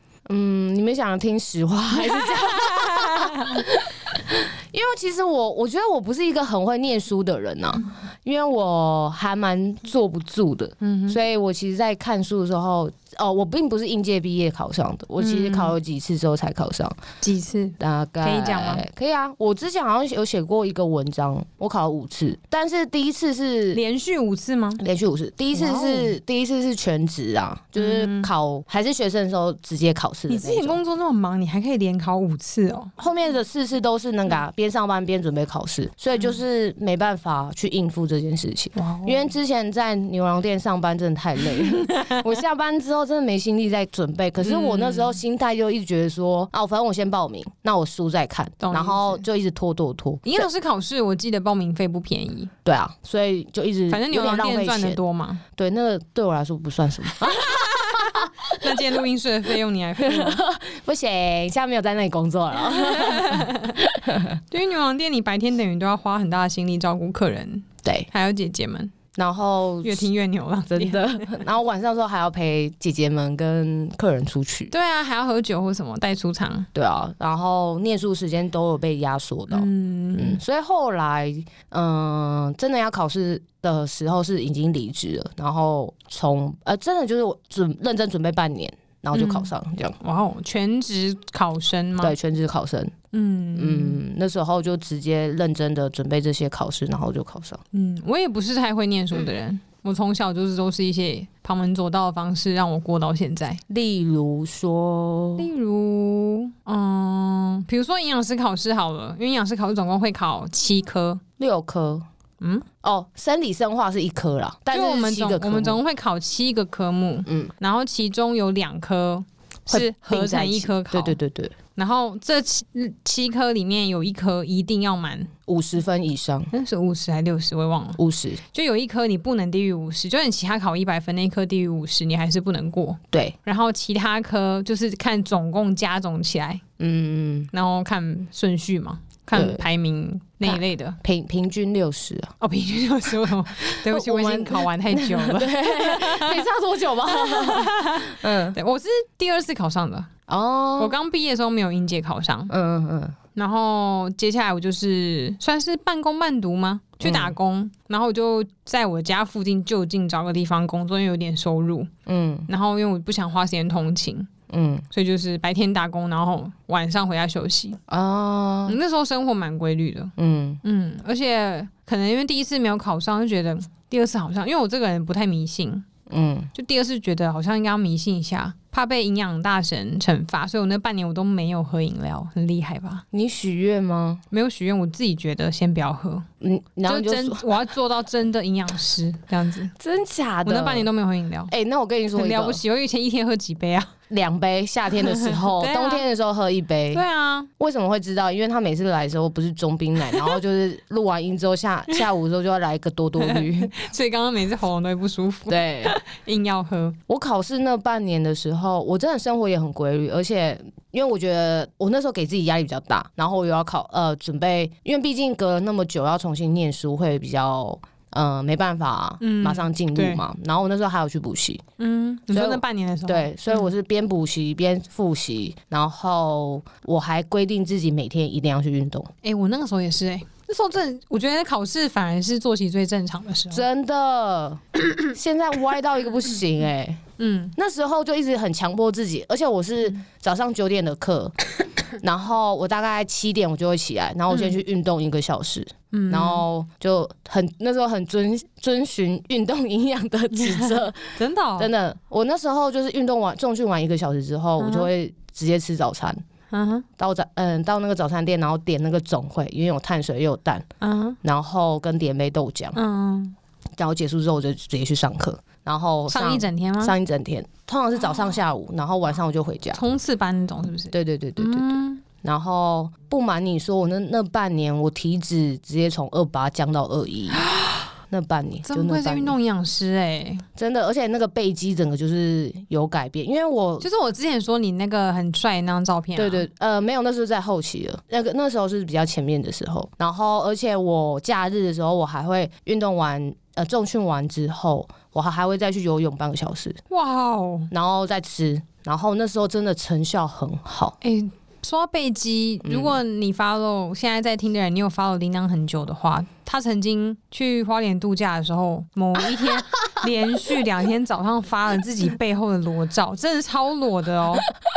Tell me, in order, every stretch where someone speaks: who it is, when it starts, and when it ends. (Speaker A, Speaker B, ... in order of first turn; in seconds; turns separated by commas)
Speaker A: 0.3-17.0, Speaker B: 1.9-3.6, Speaker B: 10.8-11.2, Speaker B: 15.2-15.8, Speaker B: 17.2-18.8, Speaker A: 17.8-23.8, Speaker B: 23.7-24.8, Speaker A: 24.8-30.8, Speaker B: 25.5-26.2, Speaker B: 27.8-28.3, Speaker B: 30.3-32.9, Speaker A: 33.0-50.4, Speaker B: 38.8-39.3, Speaker B: 44.4-45.2, Speaker B: 48.6-49.2, Speaker B: 50.2-52.5, Speaker A: 52.6-55.0, Speaker B: 53.9-55.4, Speaker A: 55.5-58.5, Speaker B: 57.3-60.4, Speaker A: 60.0-64.4, Speaker B: 62.6-63.8, Speaker B: 64.5-69.0, Speaker A: 69.1-70.1, Speaker B: 69.8-71.2, Speaker A: 70.7-74.7, Speaker B: 74.7-76.7, Speaker A: 76.7-90.0, Speaker B: 79.5-80.4, Speaker B: 89.1-92.1, Speaker A: 92.0-92.9, Speaker B: 93.1-94.0, Speaker A: 93.5-97.6, Speaker B: 97.7-103.6, Speaker A: 103.7-105.5, Speaker B: 105.4-111.2, Speaker A: 111.4-112.0, Speaker B: 112.4-112.7, Speaker A: 112.8-115.8, Speaker B: 114.7-121.2, Speaker A: 117.2-117.5, Speaker A: 119.7-121.5, Speaker B: 121.8-125.3, Speaker A: 125.5-126.5, Speaker B: 126.5-136.6, Speaker A: 128.0-128.4, Speaker A: 136.8-137.5, Speaker B: 137.5-141.0, Speaker A: 139.3-139.6, Speaker A: 140.4-142.3, Speaker B: 142.4-146.5, Speaker A: 143.7-148.6, Speaker B: 147.1-150.1, Speaker A: 150.3-150.9, Speaker B: 150.8-152.5, Speaker A: 152.5-153.1, Speaker B: 153.3-161.9, Speaker A: 157.0-157.3, Speaker A: 162.1-162.5, Speaker B: 162.5-164.3, Speaker A: 164.5-164.8, Speaker B: 164.9-167.8, Speaker A: 167.9-168.8, Speaker B: 168.7-175.8, Speaker A: 170.2-170.6, Speaker A: 176.1-176.5, Speaker B: 176.5-183.0, Speaker A: 183.1-184.2, Speaker B: 184.3-186.2, Speaker A: 186.4-187.4, Speaker B: 186.8-189.7, Speaker A: 189.8-190.9, Speaker B: 190.4-191.5, Speaker A: 191.5-192.6, Speaker B: 192.2-193.9, Speaker A: 194.1-197.0, Speaker B: 195.0-196.1, Speaker B: 196.9-197.5, Speaker A: 197.6-203.7, Speaker B: 203.2-207.0, Speaker A: 205.5-205.9, Speaker A: 207.1-221.6, Speaker B: 219.2-220.2, Speaker B: 221.8-223.7, Speaker A: 222.3-229.1, Speaker B: 229.2-233.7, Speaker A: 233.5-237.0, Speaker B: 237.2-237.5, Speaker A: 237.6-241.3, Speaker A: 242.0-256.2, Speaker B: 244.3-244.6, Speaker B: 245.9-246.4, Speaker B: 250.4-251.7, Speaker B: 254.6-254.9, Speaker B: 256.5-256.9, Speaker A: 257.0-260.6, Speaker B: 260.8-261.2, Speaker A: 261.2-262.8, Speaker B: 262.7-263.4, Speaker A: 263.8-269.8, Speaker B: 266.1-266.9, Speaker B: 269.7-272.0, Speaker A: 270.9-277.4, Speaker B: 277.3-277.9, Speaker A: 278.1-279.4, Speaker B: 278.6-280.4, Speaker A: 280.6-283.9, Speaker B: 283.8-286.4, Speaker A: 286.1-296.8, Speaker B: 296.9-297.7, Speaker A: 297.7-300.9, Speaker B: 301.0-314.5, Speaker A: 302.6-303.0